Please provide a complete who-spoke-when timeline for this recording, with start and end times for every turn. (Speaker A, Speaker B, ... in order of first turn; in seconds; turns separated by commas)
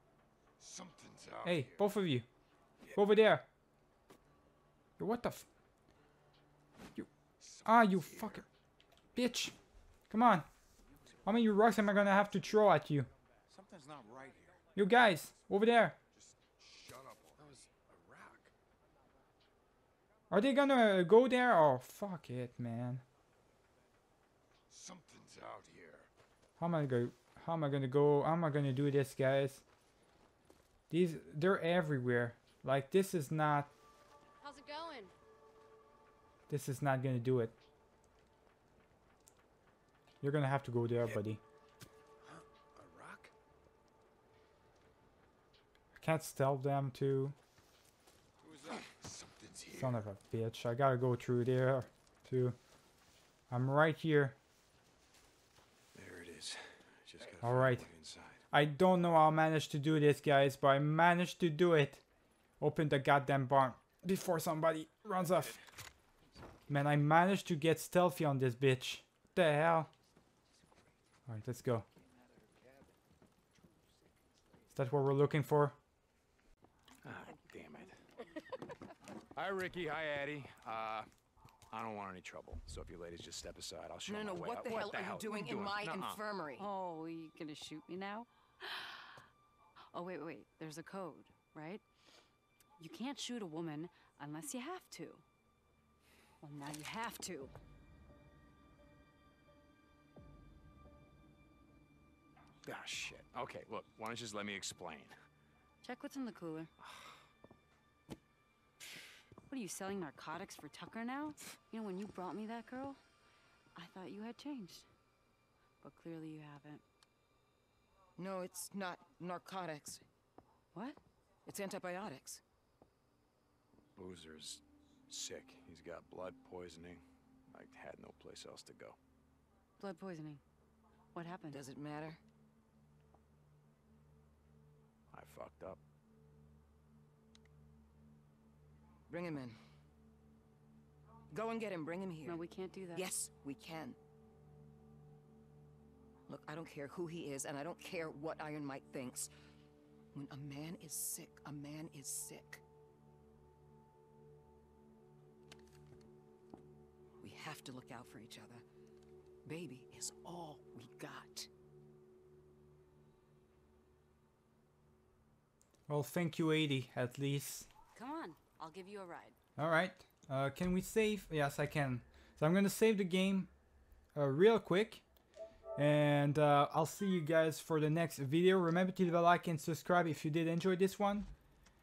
Speaker A: 0.6-1.9, Speaker B: 1.4-2.3, Speaker B: 3.0-3.5, Speaker B: 5.0-5.5, Speaker A: 7.4-8.5, Speaker B: 7.6-8.5, Speaker B: 9.1-9.6, Speaker B: 10.1-10.5, Speaker B: 11.2-13.1, Speaker A: 13.5-14.6, Speaker B: 14.8-16.0, Speaker A: 16.1-17.6, Speaker B: 20.3-23.0, Speaker A: 24.7-26.1, Speaker B: 26.6-29.6, Speaker B: 30.9-33.7, Speaker B: 36.5-37.5, Speaker B: 40.2-41.4, Speaker C: 42.8-43.3, Speaker B: 46.0-47.4, Speaker A: 48.6-50.1, Speaker B: 49.7-52.6, Speaker B: 53.5-54.4, Speaker C: 55.9-58.4, Speaker B: 57.4-57.9, Speaker B: 58.5-62.0, Speaker B: 62.6-65.6, Speaker B: 66.7-69.9, Speaker B: 71.3-71.9, Speaker B: 74.7-75.8, Speaker C: 77.0-78.0, Speaker C: 79.3-81.1, Speaker C: 81.7-86.2, Speaker D: 84.1-86.7, Speaker E: 86.6-89.2, Speaker E: 89.9-91.8, Speaker E: 92.8-95.2, Speaker E: 96.4-97.5, Speaker C: 102.6-105.2, Speaker E: 105.8-106.7, Speaker C: 106.8-107.1, Speaker E: 109.5-113.0, Speaker E: 113.8-114.9, Speaker E: 115.8-116.8, Speaker D: 118.2-120.0, Speaker E: 120.7-121.0, Speaker D: 121.5-122.4, Speaker C: 124.0-129.0, Speaker E: 129.8-130.4, Speaker E: 131.2-131.6, Speaker D: 131.5-132.2, Speaker C: 135.1-135.8, Speaker D: 139.1-139.6, Speaker D: 141.3-142.4, Speaker E: 142.2-143.1, Speaker D: 142.9-144.0, Speaker D: 146.3-149.3, Speaker D: 150.1-152.6, Speaker D: 157.2-158.6, Speaker D: 159.4-161.5, Speaker B: 165.9-167.7, Speaker E: 167.9-169.4, Speaker B: 169.6-173.5, Speaker B: 174.2-175.0, Speaker B: 175.8-181.3